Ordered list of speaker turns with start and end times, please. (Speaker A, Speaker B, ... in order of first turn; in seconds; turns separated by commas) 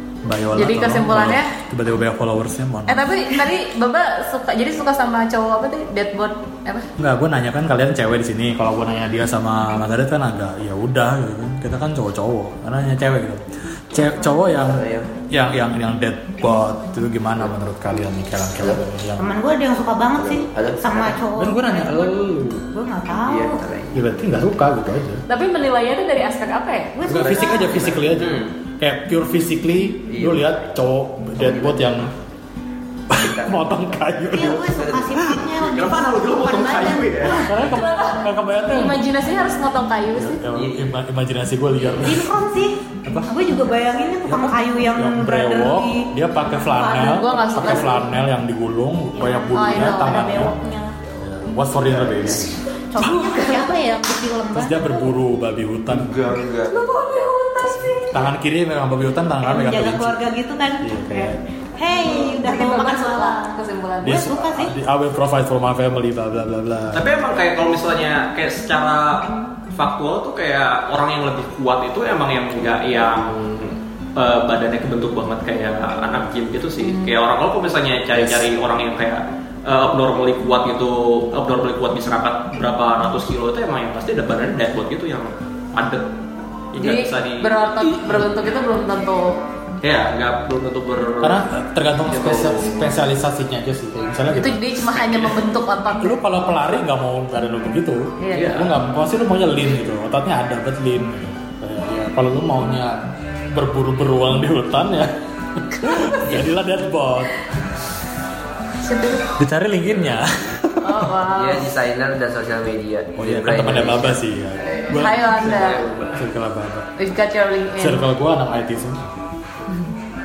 Speaker A: 0.2-3.1, Speaker B: 0.6-1.5, Speaker B: 2.9-6.9, Speaker A: 7.0-19.3, Speaker C: 14.2-15.1, Speaker D: 19.2-23.6, Speaker C: 20.2-21.2, Speaker A: 21.4-22.6, Speaker C: 23.2-24.0, Speaker A: 23.9-25.2, Speaker B: 25.3-26.9, Speaker D: 26.9-27.9, Speaker A: 27.1-32.1, Speaker C: 27.1-28.5, Speaker C: 30.1-30.8, Speaker C: 31.4-31.8, Speaker A: 33.1-35.3, Speaker C: 33.1-33.9, Speaker D: 34.3-37.5, Speaker C: 34.6-35.1, Speaker E: 35.6-37.4, Speaker B: 37.3-40.4, Speaker A: 37.3-39.0, Speaker A: 40.1-42.3, Speaker C: 40.5-40.9, Speaker C: 41.8-42.1, Speaker D: 42.0-46.1, Speaker A: 43.0-43.4, Speaker A: 44.3-50.6, Speaker D: 46.7-48.0, Speaker B: 47.0-48.0, Speaker D: 49.1-51.0, Speaker B: 49.5-50.4, Speaker A: 51.2-53.3, Speaker D: 52.9-55.0, Speaker B: 53.0-53.7, Speaker A: 54.5-56.3, Speaker C: 56.0-57.3, Speaker B: 56.7-58.3, Speaker A: 58.1-60.2, Speaker D: 59.4-64.8, Speaker A: 60.8-61.4, Speaker B: 62.2-64.3, Speaker A: 64.0-67.1, Speaker E: 66.9-86.1, Speaker B: 76.8-77.1, Speaker A: 78.2-78.4, Speaker E: 86.7-87.5, Speaker B: 86.8-89.4, Speaker E: 89.8-91.4, Speaker A: 91.2-95.1, Speaker E: 92.1-92.9, Speaker B: 94.3-96.2, Speaker A: 96.0-105.1, Speaker B: 98.2-98.5, Speaker E: 98.3-98.7, Speaker A: 105.7-107.3, Speaker B: 108.8-109.3, Speaker A: 109.4-111.1, Speaker B: 110.8-111.7, Speaker C: 111.3-114.2, Speaker A: 113.2-115.3, Speaker B: 114.7-115.8, Speaker C: 115.5-116.2, Speaker A: 116.1-116.9, Speaker B: 117.0-118.0, Speaker A: 117.8-119.1